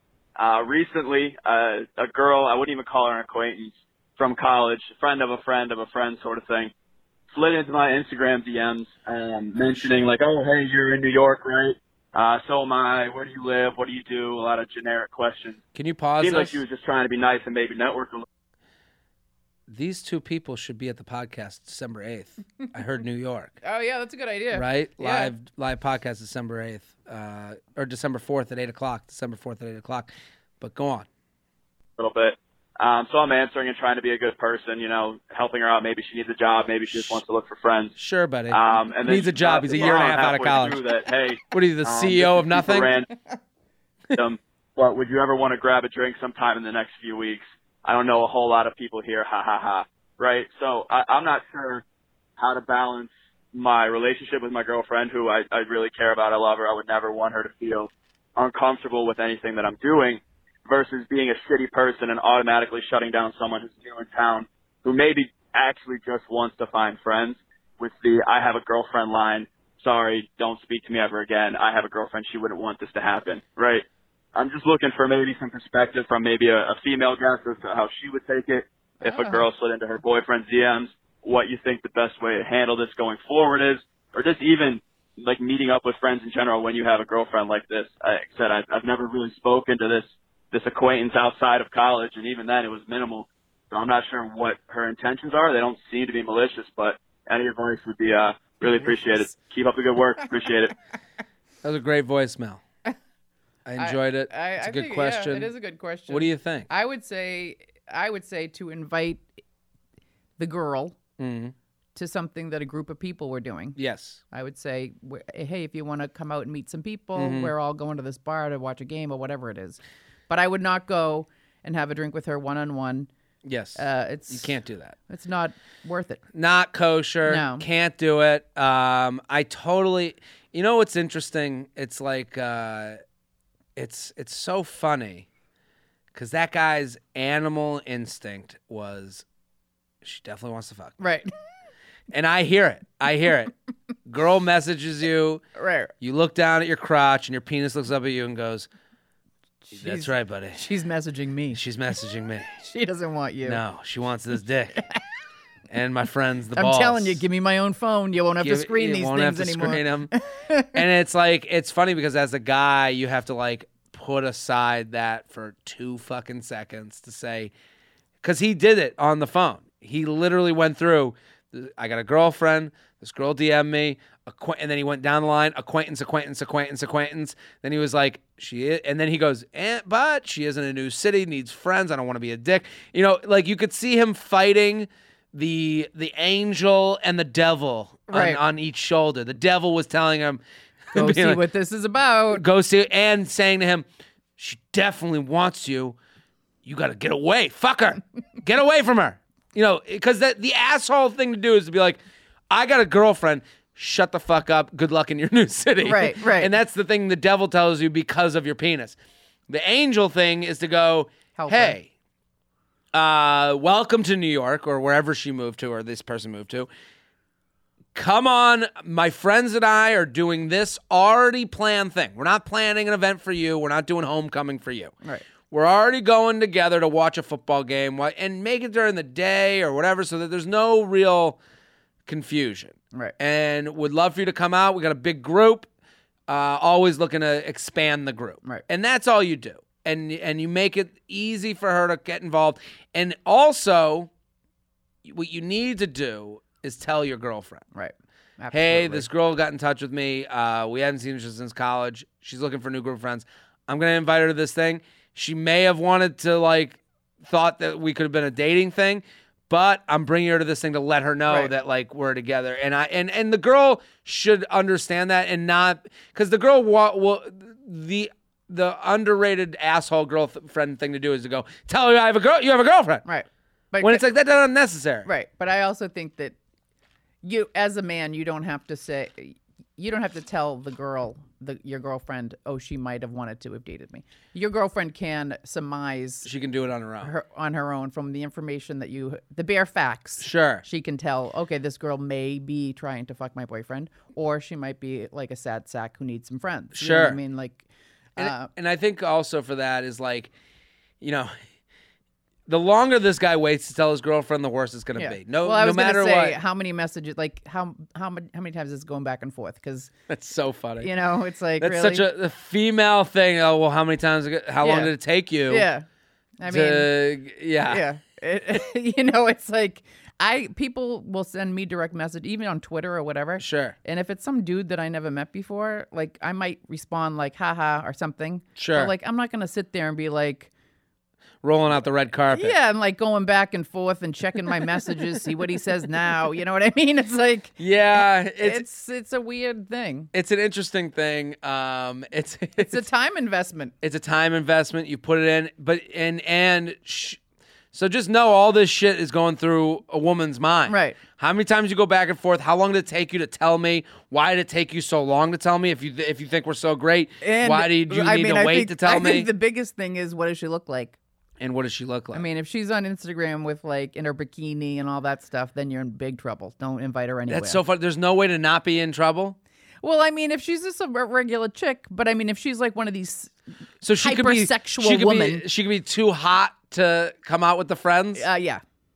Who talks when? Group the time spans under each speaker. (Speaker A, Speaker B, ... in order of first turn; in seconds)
Speaker A: 0.4-6.7, 7.3-15.6, 16.2-18.2, 32.0-37.9, 38.5-43.1, 44.1-51.8, 52.4-100.7
Speaker B: 15.7-16.6, 19.7-23.5, 24.5-31.1, 38.0-40.8, 41.5-42.9, 101.6-102.6, 103.7-105.5, 106.1-106.7, 111.2-111.5, 113.8-114.2, 117.2-117.5, 123.4-125.0, 126.3-133.0, 133.8-135.2, 136.1-139.2, 140.0-141.0, 142.1-143.5, 144.1-145.4, 146.0-148.7, 149.7-150.6, 151.5-152.5, 153.4-154.8, 155.7-157.2, 158.4-160.1, 160.7-167.5, 168.2-190.4, 190.9-191.4, 192.3-193.8, 194.4-196.0, 196.6-202.0, 202.5-208.9, 209.5-211.9, 212.9-216.7, 217.9-224.9, 225.5-231.4, 232.1-235.7, 236.3-244.1, 245.0-247.6, 248.5-273.0, 273.8-275.1, 286.2-287.1, 290.2-290.6, 296.7-297.2, 298.2-300.3, 301.0-301.3, 302.5-306.4, 310.1-310.9, 311.6-315.7, 316.5-317.8, 323.4-323.8, 328.6-328.9, 331.4-332.5, 337.6-338.6, 340.1-342.8, 343.8-347.2, 347.7-359.3, 361.4-362.2, 367.3-369.4, 373.8-378.2
Speaker C: 23.6-25.3, 79.0-79.5, 103.8-109.2, 110.4-111.0, 111.9-113.8, 114.3-123.1, 123.8-124.5, 125.1-126.2, 127.3-127.6, 141.0-141.3, 145.5-145.9, 149.7-151.6, 152.6-153.6, 156.5-160.8, 188.1-188.4, 190.9-192.4, 205.8-206.5, 211.3-211.8, 247.7-249.1, 273.0-274.0, 275.0-276.3, 277.2-286.3, 287.0-297.6, 298.1-298.5, 304.9-309.9, 310.8-312.1, 314.6-314.9, 315.5-315.8, 316.4-316.9, 317.6-330.5, 332.3-337.6, 338.4-340.1, 342.6-343.7, 350.7-351.0, 357.2-361.0, 362.1-367.6, 369.8-373.3, 374.0-375.4, 378.1-378.6